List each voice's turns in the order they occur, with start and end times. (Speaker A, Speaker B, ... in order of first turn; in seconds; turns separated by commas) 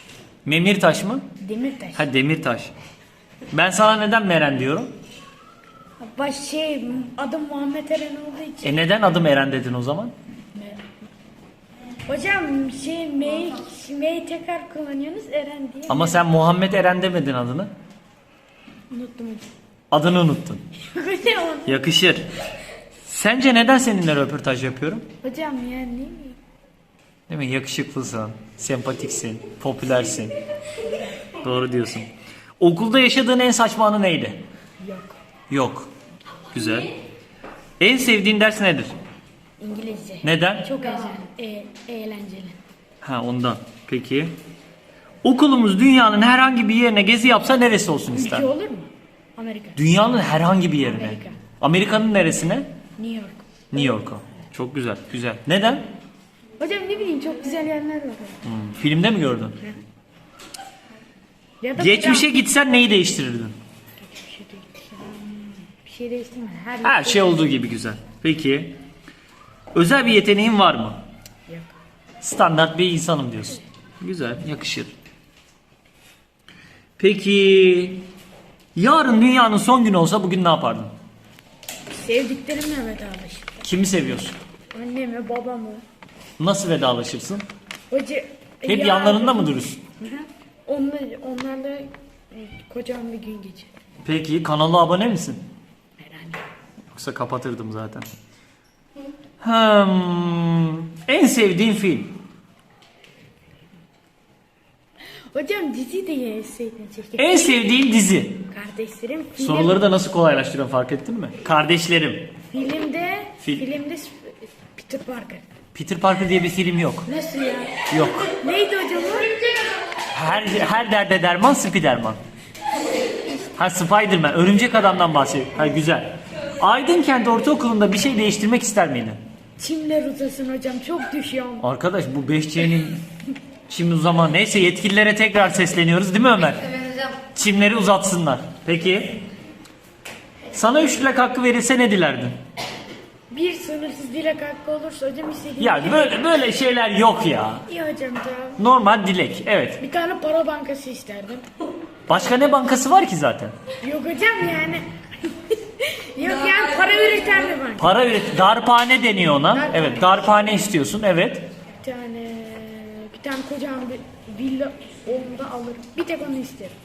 Speaker A: 0.4-1.2, Speaker B: 1.4-2.0, Speaker A: 1.9-2.7, Speaker A: 3.5-4.9, Speaker B: 6.0-8.8, Speaker A: 8.6-10.1, Speaker B: 10.5-10.9, Speaker B: 12.1-16.2, Speaker A: 15.9-17.7, Speaker B: 18.9-19.4, Speaker A: 19.9-20.6, Speaker B: 20.8-21.7, Speaker A: 21.6-22.3, Speaker A: 23.0-25.0, Speaker B: 25.2-26.4, Speaker A: 27.3-30.3, Speaker B: 30.8-31.2, Speaker A: 31.4-32.1, Speaker A: 32.6-34.4, Speaker B: 34.8-35.1, Speaker A: 35.5-35.9, Speaker A: 36.5-36.9, Speaker A: 37.8-39.0, Speaker B: 39.6-42.6, Speaker A: 40.2-40.7, Speaker A: 43.0-44.3, Speaker A: 45.2-48.5, Speaker B: 48.1-49.8, Speaker A: 49.8-52.7, Speaker B: 50.8-51.4, Speaker B: 53.0-54.0, Speaker A: 53.7-55.8, Speaker B: 56.6-58.4, Speaker A: 58.4-59.6, Speaker B: 61.6-62.3, Speaker A: 61.8-63.6, Speaker B: 64.0-67.5, Speaker A: 66.8-68.8, Speaker A: 69.7-71.0, Speaker A: 72.2-74.9, Speaker A: 77.0-78.0, Speaker A: 78.7-80.9, Speaker B: 81.9-83.6, Speaker A: 83.6-84.3, Speaker B: 84.7-85.8, Speaker A: 86.4-87.4, Speaker B: 87.9-93.7, Speaker A: 88.7-89.8, Speaker A: 94.0-95.4, Speaker B: 96.0-96.4, Speaker A: 96.9-98.1, Speaker A: 99.4-102.2, Speaker B: 105.3-107.7, Speaker A: 107.2-108.4, Speaker B: 108.5-109.8, Speaker A: 109.4-112.3, Speaker B: 112.5-115.4, Speaker A: 115.7-117.0, Speaker B: 117.0-119.5, Speaker A: 117.9-118.3, Speaker A: 120.1-122.2, Speaker A: 123.5-129.2, Speaker B: 129.6-131.6, Speaker A: 131.6-133.0, Speaker A: 133.7-139.2, Speaker A: 140.5-142.3, Speaker B: 143.3-146.1, Speaker A: 145.6-147.6, Speaker B: 147.7-148.6, Speaker A: 148.6-149.8, Speaker B: 149.8-151.4, Speaker A: 152.1-153.5, Speaker B: 153.8-154.8, Speaker B: 155.5-157.9, Speaker A: 157.8-161.4, Speaker B: 159.5-160.6, Speaker B: 161.8-166.7